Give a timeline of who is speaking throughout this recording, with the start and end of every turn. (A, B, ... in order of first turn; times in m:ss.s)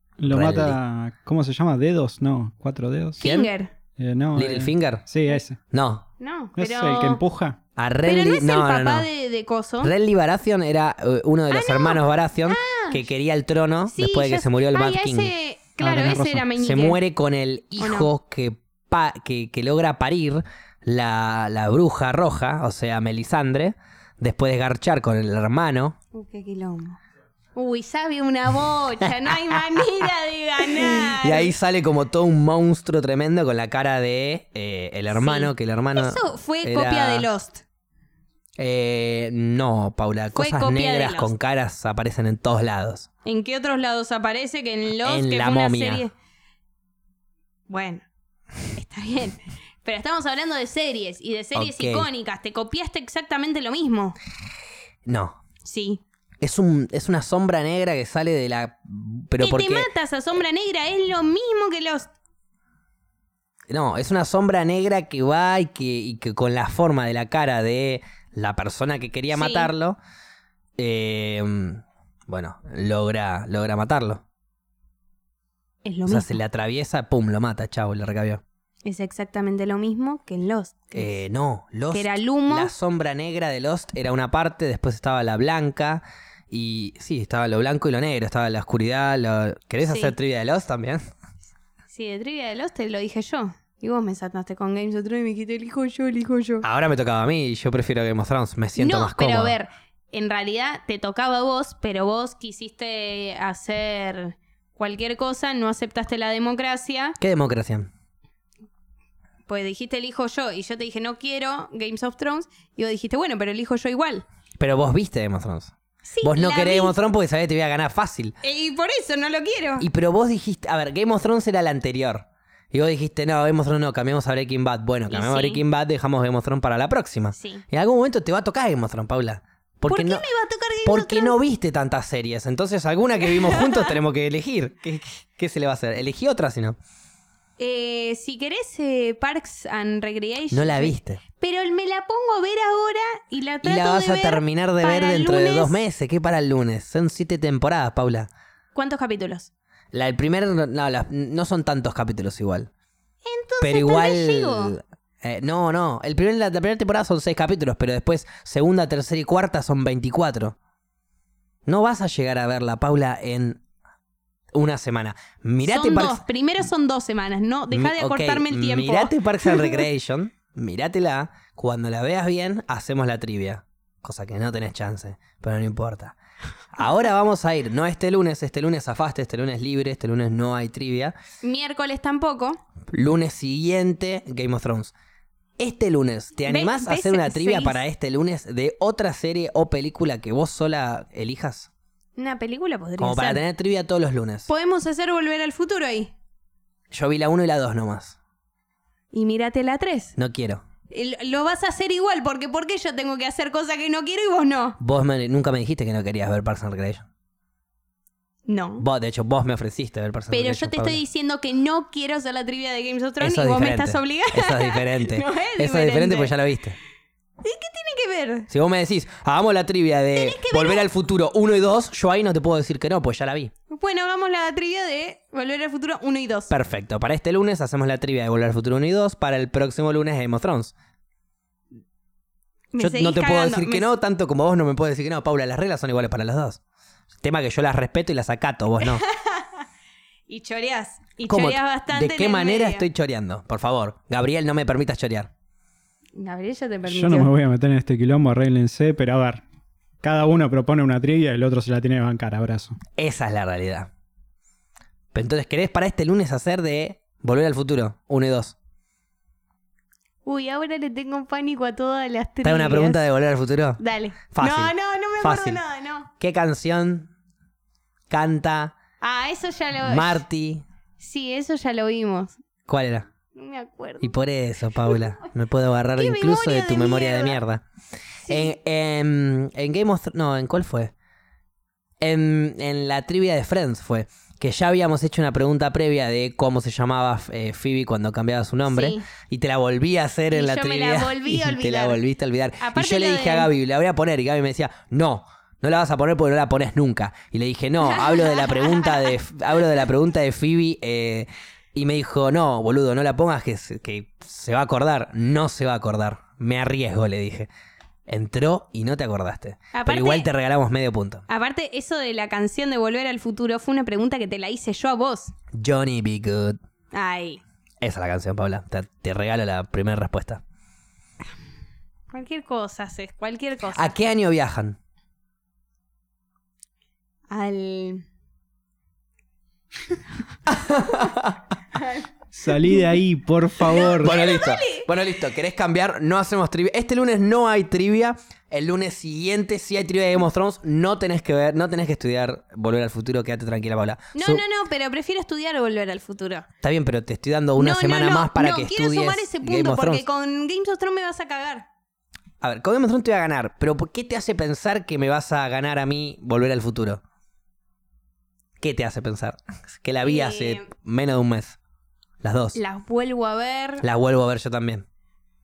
0:00.2-0:03.2 A
0:00.3-0:00.8 B
0:03.2-0:03.7 C
0:03.2-0:03.5 B
0:04.0-0:05.6 A
0:04.4-0:05.0 B
0:05.7-0:06.0 B
0:06.2-0:07.2 C
0:06.6-0:07.6 A
0:07.8-0:09.1 B
0:08.0-0:09.9 C
0:09.8-0:15.3 B
0:11.5-0:13.0 C
0:13.9-0:17.0 C
0:15.8-0:16.5 A
0:16.6-0:26.0 B
0:17.8-0:18.1 C
0:26.1-0:27.0 C
0:27.6-0:31.5 C
0:30.7-0:37.3 B
0:35.1-0:37.6 C
0:38.6-0:43.1 B
0:40.4-0:41.3 C
0:43.2-0:46.1 C
0:45.0-0:46.1 B
0:47.7-0:48.0 C
0:48.7-0:54.2 C
0:51.6-0:52.1 B
0:55.1-0:55.4 B
0:55.6-0:56.0 C
0:56.4-0:59.9 B
0:59.4-1:02.1 C
1:03.7-1:10.0 B
1:09.3-1:09.7 C
1:10.8-1:14.2 B
1:15.8-1:16.4 C
1:16.1-1:18.4 B
1:18.8-1:21.2 C
1:21.0-1:31.0 B
1:21.9-1:22.7 C
1:29.8-1:30.1 C
1:31.9-1:36.6 C
1:36.6-1:39.6 B
1:38.8-1:47.2 C
1:47.2-1:47.9 B
1:49.5-1:54.2 C
1:54.6-1:58.4 B
1:56.1-1:57.0 C
1:58.4-1:59.9 C
1:59.8-2:10.2 B
2:05.1-2:05.6 C
2:07.4-2:07.6 C
2:09.9-2:11.4 C
2:10.8-2:16.8 B
2:13.3-2:14.0 C
2:17.6-2:25.8 C
2:20.5-2:21.2 B
2:23.6-2:28.3 B
2:28.8-2:29.5 C
2:29.9-2:32.7 B
2:33.2-2:34.8 C
2:33.6-2:40.6 B
2:41.7-2:43.6 B
2:44.5-2:46.2 B
2:45.6-2:49.8 C
2:47.7-2:56.2 B
2:56.7-3:01.2 B
3:01.4-3:02.6 C
3:02.9-3:04.9 B
3:05.6-3:11.7 B
3:06.5-3:07.8 C
3:12.2-3:13.4 C
3:13.0-3:14.5 B
3:14.5-3:16.1 C
3:16.9-3:18.2 B
3:19.1-3:20.2 C
3:20.2-3:20.6 B
3:20.9-3:24.8 C
3:24.8-3:27.1 B
3:28.5-3:28.8 C
3:28.8-3:31.0 B
3:30.3-3:36.4 C
3:33.2-3:36.8 B
3:37.4-3:38.5 C
3:38.5-3:43.5 B
3:40.2-3:40.8 C
3:43.7-3:46.5 C
3:46.5-3:50.7 B
3:52.7-3:53.9 C
3:52.8-3:56.6 B
3:57.2-3:59.0 B
3:58.8-3:59.6 C
4:00.3-4:02.9 C
4:01.3-4:05.3 B
4:06.2-4:07.3 C
4:06.9-4:09.4 A
4:10.0-4:12.8 A
4:13.0-4:13.9 B
4:15.1-4:18.6 B
4:20.2-4:23.0 C
4:22.4-4:25.6 B
4:23.8-4:26.1 C
4:26.2-4:27.1 B
4:28.1-4:28.8 B
4:29.0-4:30.2 C
4:29.8-4:30.6 B
4:31.0-4:32.4 C
4:32.7-4:33.1 B
4:33.4-4:34.2 C
4:34.0-4:37.6 B
4:34.8-4:35.3 C
4:36.0-4:37.4 C
4:38.3-4:38.6 C
4:38.3-4:40.9 B
4:42.0-5:07.5 B
4:48.7-4:49.0 C
4:50.3-4:52.0 C
4:52.6-4:53.5 C
4:57.8-4:59.2 C
5:08.1-5:11.2 B
5:09.7-5:10.3 C
5:11.3-5:15.3 C
5:15.5-5:16.6 B
5:16.9-5:17.4 C
5:17.8-5:20.4 B
5:22.1-5:23.9 C
5:23.7-5:24.8 B
5:27.3-5:28.0 C
5:30.5-5:31.4 B
5:31.8-5:32.1 C
5:32.3-5:34.2 A
5:33.6-5:34.9 C
5:34.0-5:44.4 B
5:44.2-5:46.5 C
5:46.6-5:50.1 B
5:47.6-5:51.7 C
5:52.4-5:57.0 B
5:58.6-6:01.6 B
6:00.0-6:00.7 C
6:02.2-6:02.6 B
6:02.6-6:03.8 C
6:03.8-6:04.9 B